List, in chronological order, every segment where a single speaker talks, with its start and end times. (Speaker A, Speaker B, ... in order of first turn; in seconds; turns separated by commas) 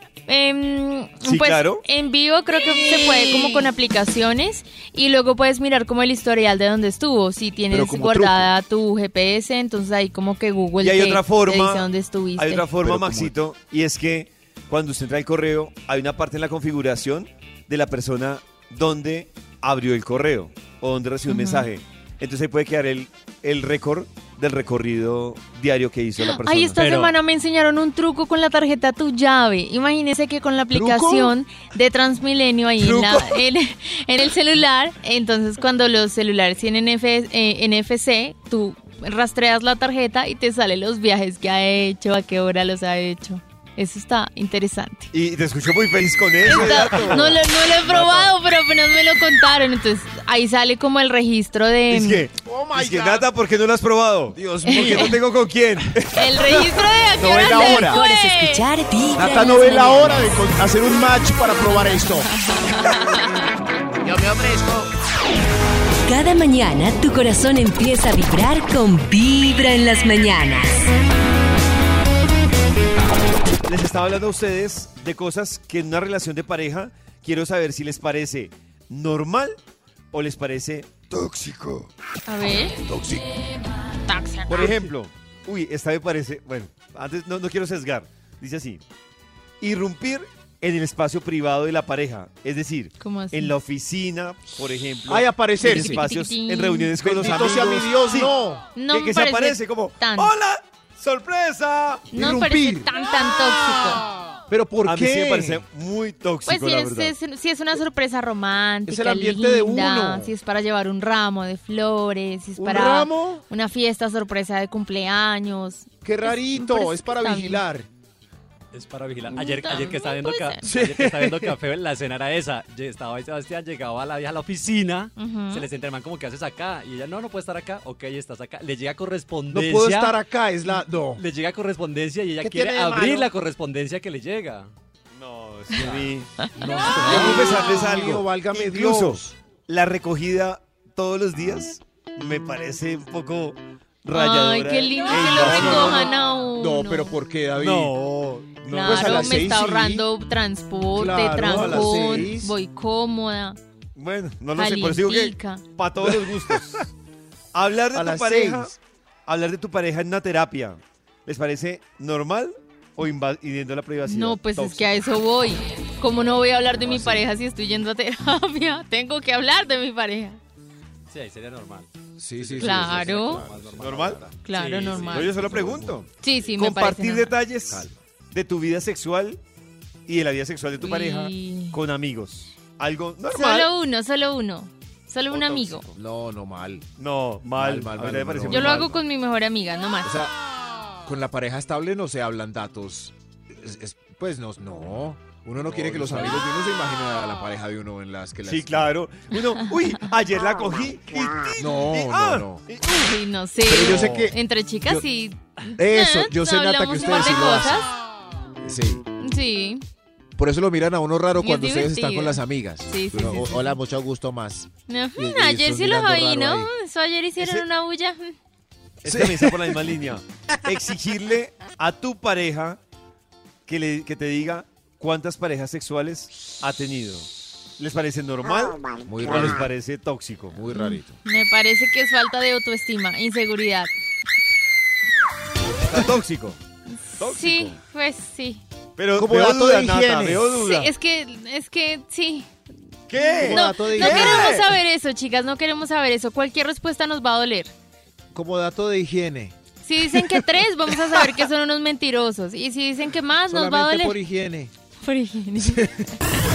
Speaker A: 0.3-12.7, Speaker B: 1.2-1.8, Speaker C: 7.7-8.5, Speaker B: 10.8-11.8, Speaker B: 12.4-26.8, Speaker C: 12.8-13.3, Speaker A: 21.3-21.7, Speaker A: 26.2-45.1, Speaker D: 26.7-27.1, Speaker C: 30.7-31.4, Speaker B: 32.8-33.4, Speaker B: 45.1-48.3, Speaker A: 46.4-52.2, Speaker C: 46.4-47.3, Speaker B: 51.9-56.8, Speaker C: 52.4-53.3, Speaker C: 54.3-55.2, Speaker A: 54.6-55.2, Speaker A: 56.1-58.6, Speaker C: 57.1-58.0, Speaker E: 57.4-60.2, Speaker C: 59.1-62.3, Speaker A: 62.3-63.4, Speaker C: 64.0-64.9, Speaker E: 66.0-70.9, Speaker B: 73.6-79.5, Speaker B: 80.1-81.9, Speaker A: 82.2-82.8, Speaker B: 82.9-83.2, Speaker A: 84.1-84.9, Speaker B: 84.5-88.8, Speaker B: 89.6-98.3, Speaker A: 93.0-93.5, Speaker C: 95.1-96.0, Speaker A: 95.6-97.0, Speaker C: 97.0-98.7, Speaker A: 98.7-100.3, Speaker B: 98.9-102.2, Speaker C: 102.1-102.9, Speaker A: 102.1-104.0, Speaker C: 104.5-105.6, Speaker B: 104.8-107.1, Speaker A: 106.5-117.6, Speaker C: 108.9-110.3, Speaker C: 112.6-113.4, Speaker C: 116.0-117.9, Speaker D: 118.7-130.2, Speaker A: 119.3-120.7, Speaker C: 120.6-121.5, Speaker A: 125.2-125.7, Speaker C: 129.5-131.2, Speaker D: 131.1-134.7, Speaker C: 132.4-133.3, Speaker B: 135.1-136.3, Speaker D: 135.7-137.8, Speaker C: 136.6-139.3, Speaker B: 137.1-146.1, Speaker A: 144.1-147.2, Speaker C: 145.2-147.9, Speaker B: 147.6-149.5, Speaker A: 148.7-153.6, Speaker C: 148.8-150.1, Speaker C: 150.9-152.5, Speaker B: 151.4-152.3, Speaker B: 153.9-156.9, Speaker A: 154.5-155.6, Speaker C: 156.1-156.6, Speaker B: 157.5-158.8, Speaker C: 157.9-158.7, Speaker B: 159.3-165.1, Speaker A: 164.0-170.4, Speaker C: 166.8-167.2, Speaker D: 171.1-175.5, Speaker C: 172.2-174.3, Speaker A: 172.6-173.4, Speaker B: 173.8-174.2, Speaker A: 174.4-175.6, Speaker C: 174.9-176.1, Speaker B: 175.0-176.0, Speaker A: 176.2-177.4, Speaker B: 176.6-179.4, Speaker C: 177.7-177.9, Speaker B: 180.1-183.7, Speaker A: 180.8-181.8, Speaker A: 183.3-185.9, Speaker B: 185.3-185.9, Speaker C: 185.9-186.9, Speaker B: 187.0-189.0, Speaker C: 187.5-189.0, Speaker A: 188.5-190.2, Speaker C: 190.0-190.3, Speaker C: 191.0-198.9, Speaker B: 195.6-196.4, Speaker B: 198.4-202.8, Speaker C: 201.5-202.6, Speaker A: 202.8-207.9, Speaker C: 203.6-205.1, Speaker B: 203.8-204.3, Speaker C: 205.8-207.8, Speaker C: 208.6-209.0, Speaker A: 209.2-209.8, Speaker C: 210.3-216.7, Speaker A: 211.3-213.8, Speaker A: 214.9-218.3, Speaker B: 217.4-217.6, Speaker B: 219.0-222.8, Speaker C: 219.0-219.9, Speaker B: 223.7-230.6, Speaker C: 229.0-229.7, Speaker C: 230.5-231.2, Speaker A: 230.7-233.9, Speaker B: 235.8-236.6, Speaker A: 237.1-238.6, Speaker B: 237.2-237.8, Speaker B: 239.0-240.9, Speaker C: 239.2-240.5, Speaker A: 240.4-242.5, Speaker B: 243.1-244.8, Speaker A: 243.1-247.7, Speaker C: 243.4-244.5, Speaker C: 248.3-249.5, Speaker A: 249.8-254.2, Speaker C: 253.5-254.7, Speaker A: 255.0-256.1, Speaker C: 255.6-255.9